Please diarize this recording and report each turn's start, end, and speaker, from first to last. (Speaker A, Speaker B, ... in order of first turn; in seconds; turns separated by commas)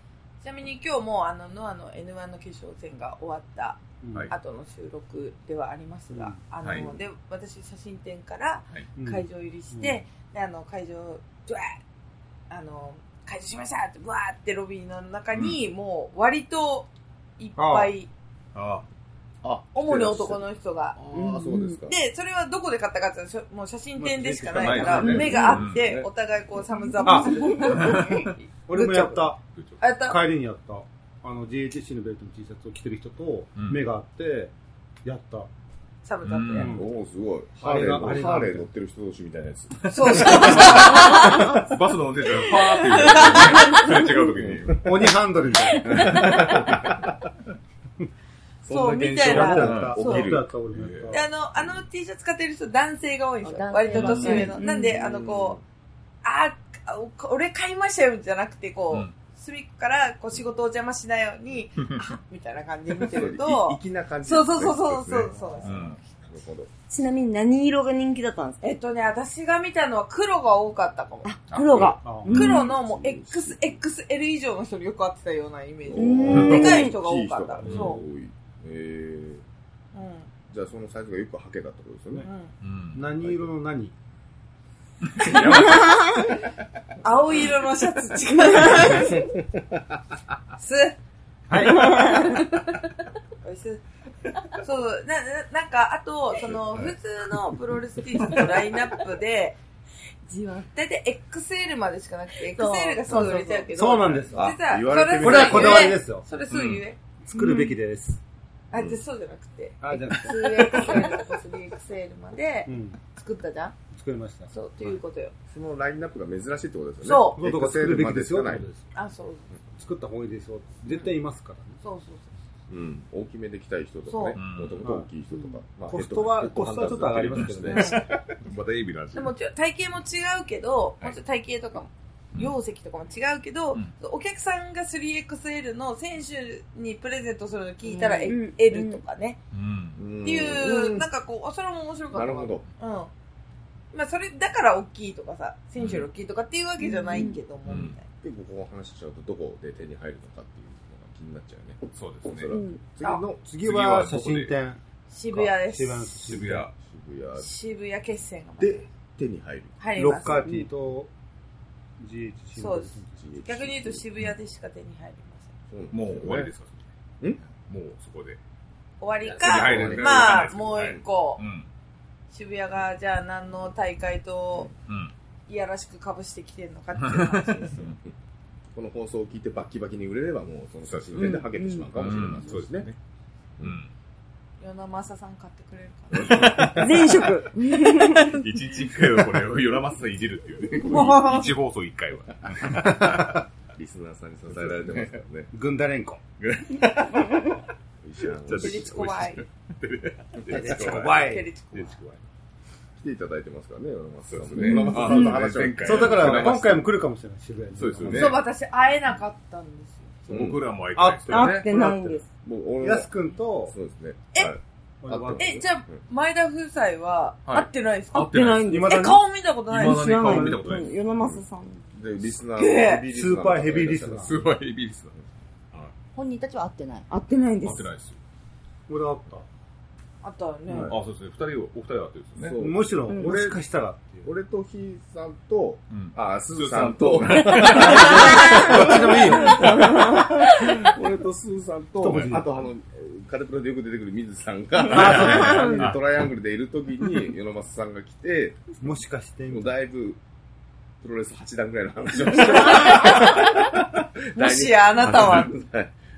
Speaker A: 0.4-11.8, Speaker B: 4.0-4.3, Speaker B: 6.1-6.4, Speaker C: 6.6-6.9, Speaker B: 8.9-10.0, Speaker A: 12.5-18.1, Speaker C: 15.3-15.6, Speaker B: 17.6-17.9, Speaker C: 18.5-18.9, Speaker D: 19.4-22.0, Speaker A: 19.7-21.0, Speaker E: 21.1-21.8, Speaker A: 21.9-29.2, Speaker B: 24.1-25.4, Speaker C: 24.5-26.0, Speaker D: 24.6-26.1, Speaker E: 25.1-25.6, Speaker B: 27.0-28.0, Speaker C: 27.6-28.3, Speaker B: 28.7-29.4, Speaker C: 29.5-29.8, Speaker A: 29.8-30.2, Speaker B: 30.0-34.5, Speaker C: 33.6-33.8, Speaker B: 35.0-35.5, Speaker A: 36.0-36.8, Speaker C: 36.2-36.7, Speaker B: 36.5-36.8, Speaker D: 36.6-40.9, Speaker B: 37.6-38.7, Speaker C: 39.9-45.1, Speaker A: 39.9-41.6, Speaker A: 42.3-43.9, Speaker D: 44.1-44.9, Speaker B: 44.8-46.2, Speaker D: 45.8-47.1, Speaker C: 45.9-46.7, Speaker D: 48.6-50.5, Speaker A: 48.7-50.3, Speaker B: 49.1-51.2, Speaker C: 49.5-51.2, Speaker A: 51.1-55.6, Speaker F: 53.4-54.6, Speaker C: 54.0-54.4, Speaker E: 54.2-55.0, Speaker D: 54.9-55.6, Speaker A: 56.2-66.0, Speaker D: 63.0-66.7, Speaker C: 65.6-66.0, Speaker E: 66.9-68.6, Speaker A: 68.6-71.3, Speaker E: 71.2-72.6, Speaker C: 71.5-72.5, Speaker B: 72.0-72.5, Speaker A: 72.3-78.0, Speaker D: 72.5-73.8, Speaker D: 75.8-79.4, Speaker E: 76.0-76.9, Speaker C: 76.3-76.7, Speaker C: 77.6-78.0, Speaker A: 79.9-80.3, Speaker D: 80.5-82.2, Speaker A: 82.2-82.5, Speaker C: 82.6-83.1, Speaker B: 82.9-83.9, Speaker C: 85.2-85.9, Speaker E: 85.7-86.3, Speaker A: 87.0-89.3, Speaker A: 90.6-91.0, Speaker B: 91.5-92.2, Speaker A: 91.6-92.7, Speaker E: 91.9-92.4, Speaker A: 93.4-93.8, Speaker A: 94.5-99.6, Speaker A: 100.2-107.0, Speaker F: 102.5-103.7, Speaker B: 103.1-104.6, Speaker D: 104.3-106.0, Speaker B: 105.2-106.3, Speaker C: 106.5-106.8, Speaker B: 107.2-108.2, Speaker E: 107.3-107.7, Speaker A: 108.7-113.8, Speaker B: 109.8-111.0, Speaker B: 112.7-113.0, Speaker B: 113.9-114.5, Speaker A: 114.5-115.3, Speaker D: 115.5-118.7, Speaker A: 117.0-117.4, Speaker B: 117.3-118.9, Speaker A: 118.9-119.5, Speaker B: 119.8-121.8, Speaker A: 121.8-122.3, Speaker D: 122.7-128.2, Speaker A: 124.1-124.4, Speaker C: 124.3-124.9, Speaker B: 124.8-125.1, Speaker B: 125.8-128.0, Speaker C: 127.3-129.3, Speaker A: 129.1-139.4, Speaker E: 137.9-139.0, Speaker C: 139.5-140.1, Speaker D: 139.9-141.1, Speaker A: 140.2-143.1, Speaker D: 142.1-142.6, Speaker A: 143.9-148.1, Speaker C: 145.8-146.1, Speaker E: 146.8-147.4, Speaker C: 147.7-148.0, Speaker D: 148.2-153.4, Speaker C: 151.9-152.5, Speaker E: 152.5-152.8, Speaker B: 153.3-156.7, Speaker C: 153.6-154.5, Speaker A: 155.1-156.4, Speaker C: 156.2-156.7, Speaker D: 156.8-157.5, Speaker A: 157.4-158.9, Speaker D: 158.6-159.8, Speaker A: 159.8-160.7, Speaker B: 159.9-161.1, Speaker B: 162.0-163.3, Speaker A: 162.6-165.5, Speaker D: 163.2-164.1, Speaker D: 165.7-166.5, Speaker C: 165.9-166.8, Speaker C: 167.4-168.4, Speaker A: 169.0-171.4, Speaker D: 169.2-171.0, Speaker C: 169.4-171.7, Speaker A: 172.3-174.7, Speaker C: 174.8-175.1, Speaker A: 175.5-177.9, Speaker C: 177.0-178.0, Speaker D: 177.7-178.0, Speaker D: 178.7-182.9, Speaker C: 180.8-182.9, Speaker E: 181.2-181.9, Speaker C: 183.6-183.9, Speaker A: 184.6-186.7, Speaker D: 186.1-186.9, Speaker C: 186.2-186.9, Speaker E: 186.6-188.4, Speaker C: 188.2-193.4, Speaker A: 190.8-191.5, Speaker B: 192.7-193.2, Speaker D: 193.7-195.5, Speaker C: 194.5-195.2, Speaker B: 195.5-196.2, Speaker C: 196.4-197.5, Speaker D: 198.0-198.9, Speaker C: 198.4-202.2, Speaker A: 198.5-199.4, Speaker B: 200.5-201.5, Speaker A: 200.5-202.0, Speaker D: 203.0-206.6, Speaker C: 204.3-206.9, Speaker E: 204.7-205.0, Speaker B: 204.8-208.4, Speaker C: 207.8-208.4, Speaker D: 208.1-208.3, Speaker A: 208.1-210.2, Speaker C: 210.2-211.7, Speaker D: 210.3-210.6, Speaker B: 210.9-212.2, Speaker E: 211.3-212.2, Speaker D: 212.4-213.1, Speaker B: 212.8-213.7, Speaker D: 213.7-216.0, Speaker B: 215.0-215.6, Speaker A: 215.4-220.3, Speaker C: 217.4-218.8, Speaker E: 218.1-219.2, Speaker B: 218.7-219.2, Speaker C: 219.7-220.9, Speaker E: 219.8-221.8, Speaker B: 220.1-220.8, Speaker D: 221.9-224.5, Speaker A: 222.6-223.1, Speaker B: 223.1-224.3, Speaker C: 224.2-225.1, Speaker F: 226.1-227.1, Speaker E: 227.1-227.8, Speaker C: 227.6-228.2, Speaker B: 228.9-229.4, Speaker A: 230.2-230.9, Speaker D: 230.7-230.9, Speaker C: 230.8-232.6, Speaker D: 232.4-233.6, Speaker B: 232.5-234.3, Speaker D: 234.2-248.7, Speaker C: 235.9-238.9, Speaker B: 237.6-239.8, Speaker E: 239.5-240.5, Speaker B: 242.0-242.5, Speaker C: 242.1-242.3, Speaker C: 244.8-246.0, Speaker B: 244.9-245.9, Speaker B: 248.8-249.7, Speaker D: 249.5-250.2, Speaker D: 251.0-255.9, Speaker A: 252.6-253.4, Speaker A: 254.3-255.5, Speaker C: 255.0-255.5